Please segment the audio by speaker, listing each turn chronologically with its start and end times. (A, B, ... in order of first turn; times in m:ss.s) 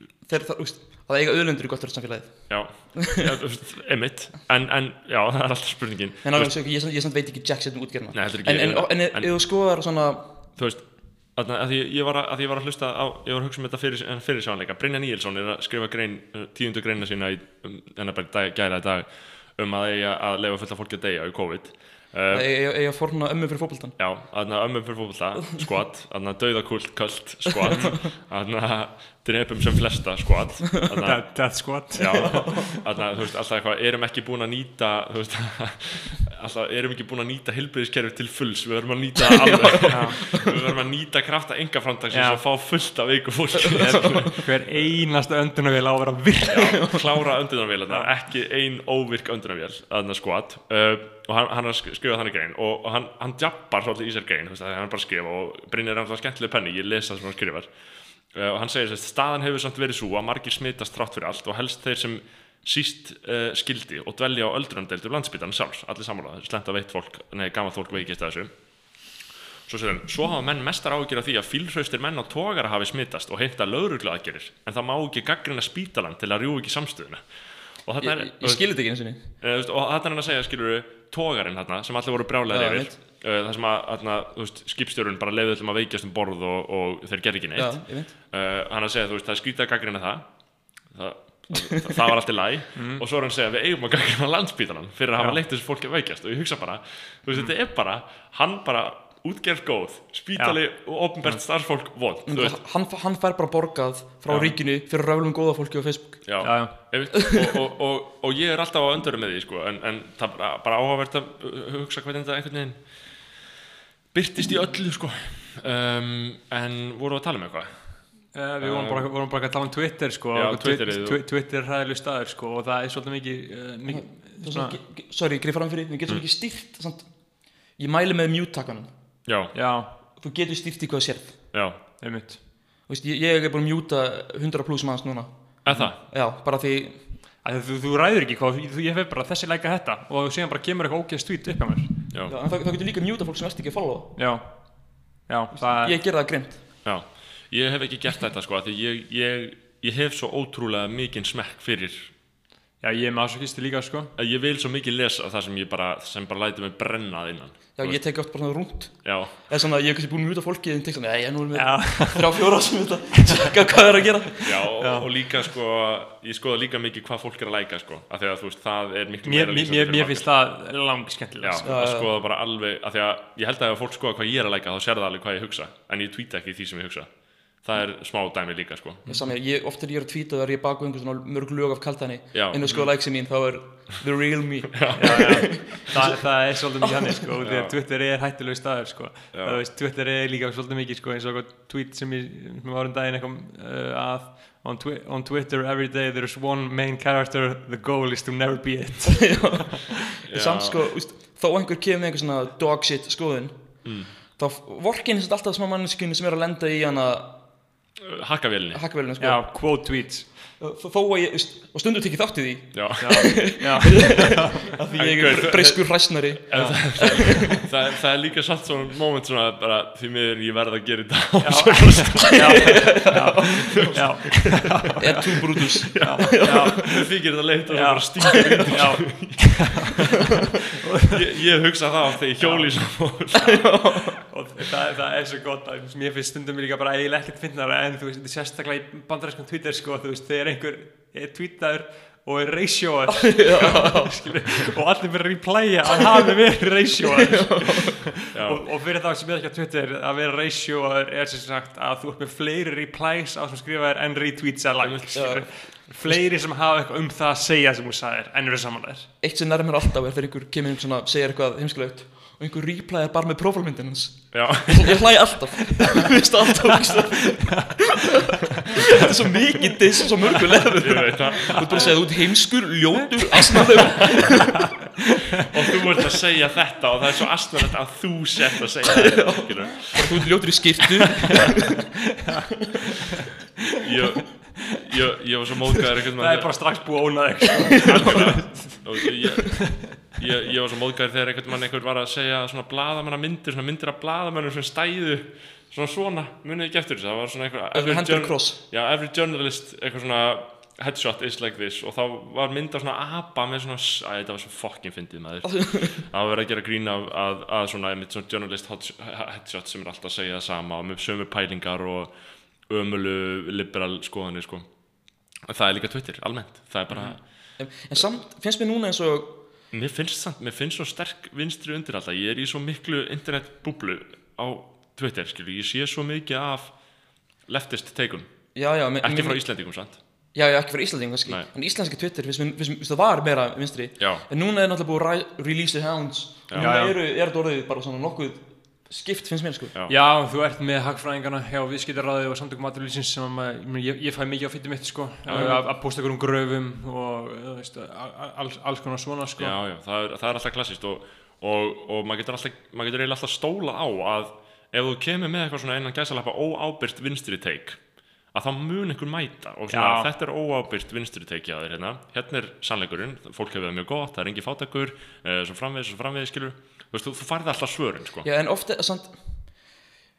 0:00.2-0:03.2 A
0:02.5-0:06.6 B
0:06.2-0:10.3 A
0:08.1-0:09.4 B
0:10.6-0:22.5 B
0:22.3-0:24.0 A
0:24.0-0:44.3 B
0:27.5-0:27.9 A
0:31.0-0:32.8 C
0:32.1-0:32.5 A
0:39.2-0:40.5 A
0:39.9-0:40.2 C
0:42.1-0:42.4 C
0:43.8-0:47.0 C
0:43.9-0:44.2 A
0:46.5-0:57.7 B
0:58.3-1:08.5 B
1:09.7-1:42.6 B
1:18.0-1:19.2 A
1:22.5-1:23.0 A
1:27.6-1:28.1 A
1:32.8-1:33.0 C
1:40.4-1:41.4 C
1:42.3-1:46.6 A
1:44.3-1:44.5 B
1:46.2-1:53.3 B
1:46.4-1:46.8 C
1:47.2-1:47.5 A
1:54.1-1:58.1 B
1:58.3-2:04.8 C
1:58.6-1:59.1 B
2:00.3-2:01.2 B
2:03.9-2:08.9 A
2:09.2-2:09.5 B
2:09.5-2:10.0 C
2:10.2-2:11.6 A
2:11.5-2:11.8 B
2:12.0-2:12.4 C
2:12.9-2:17.1 A
2:15.6-2:16.0 B
2:17.4-2:22.0 C
2:22.3-2:24.2 A
2:24.2-2:26.0 C
2:25.5-2:26.6 A
2:26.8-2:32.1 B
2:32.8-2:34.1 C
2:34.2-2:38.4 B
2:37.8-2:44.8 A
2:39.0-2:39.4 B
2:41.6-2:42.6 C
2:44.4-2:50.3 B
2:44.8-2:45.4 C
2:49.2-2:51.7 C
2:51.4-2:59.0 B
2:51.6-2:52.1 A
2:59.1-3:07.0 A
3:02.3-3:02.9 B
3:04.8-3:05.8 B
3:05.0-3:19.7 C
3:07.4-3:07.8 B
3:09.3-3:09.6 B
3:19.2-3:27.4 A
3:20.3-3:20.8 B
3:23.8-3:24.1 B
3:28.0-3:28.8 B
3:28.7-3:29.6 A
3:29.2-3:30.3 C
3:30.6-3:37.6 A
3:32.7-3:33.4 B
3:33.0-3:34.7 C
3:35.0-3:42.9 B
3:36.5-3:37.1 C
3:41.4-3:45.2 C
3:42.4-3:43.9 A
3:43.9-3:44.3 B
3:45.0-3:46.6 A
3:45.8-3:47.1 C
3:45.9-3:50.0 B
3:47.7-3:50.1 C
3:48.4-3:48.9 A
3:51.1-3:53.9 B
3:52.4-3:53.1 C
3:53.4-3:54.1 A
3:54.3-4:19.1 C
4:03.3-4:04.4 A
4:07.1-4:07.9 A
4:08.3-4:08.7 B
4:14.8-4:15.5 B
4:15.1-4:16.2 A
4:19.2-4:28.0 A
4:24.3-4:25.0 B
4:28.8-4:34.5 A
4:30.3-4:32.0 B
4:31.7-4:32.0 C
4:35.4-4:40.3 B
4:38.8-4:41.8 A
4:43.8-4:46.8 B
4:44.6-4:44.8 C
4:46.2-4:49.1 C
4:47.8-5:12.1 B
4:49.7-4:50.0 C
4:57.7-4:58.6 A
5:05.4-5:06.0 A
5:12.6-5:14.7 B
5:15.5-5:17.2 B
5:17.0-5:19.4 A
5:19.7-5:26.8 B
5:27.4-5:28.3 B
5:28.6-5:29.4 A
5:29.0-5:30.0 B
5:30.3-5:39.7 A
5:34.0-5:34.2 B
5:36.5-5:36.7 B
5:36.6-5:37.0 C
5:39.9-5:49.6 C
5:45.3-5:45.6 B
5:45.3-5:45.7 A
5:49.4-5:57.8 B
5:58.3-6:08.3 B
5:59.7-6:00.1 C
6:08.2-6:09.5 A